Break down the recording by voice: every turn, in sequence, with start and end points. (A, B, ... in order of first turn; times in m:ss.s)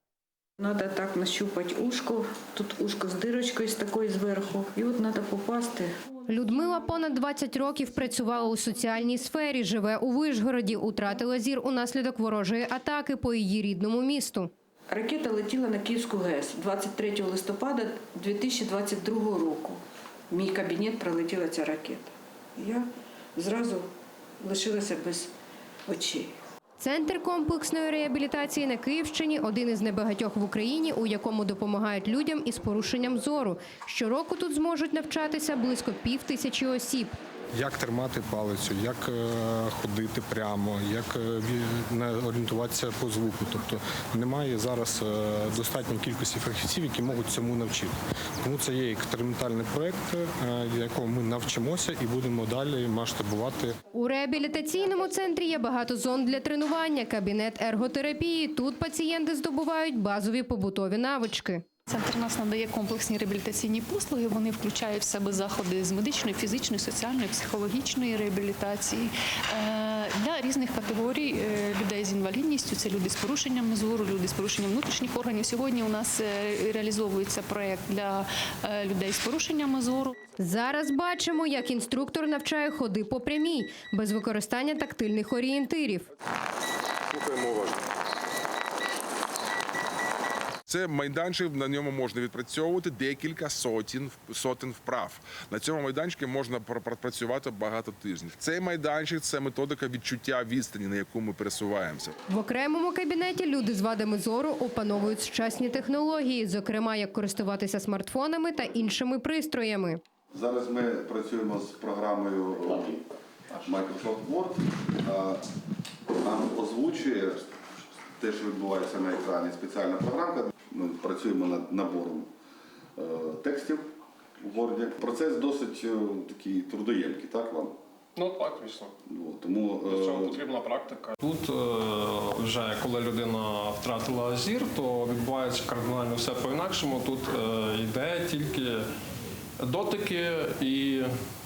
0:00.6-0:05.9 A
0:06.3-0:14.5 B
0:14.9-0:23.9 A
0:24.4-0:25.3 A
0:25.9-0:26.4 A
0:26.8-0:37.2 B
0:37.5-0:53.8 C
0:53.9-1:01.7 B
1:01.9-1:20.2 D
1:20.4-1:26.1 B
1:27.1-1:27.8 E
1:30.7-1:42.2 E
1:42.3-1:50.0 B
1:50.3-1:53.0 F
1:53.6-1:55.4 F
1:56.2-1:57.5 F
1:58.2-2:02.3 F
2:03.0-2:03.9 F
2:04.4-2:07.8 F
2:08.2-2:08.9 G
2:09.1-2:10.4 F
2:09.9-2:18.8 G
2:19.6-2:21.1 G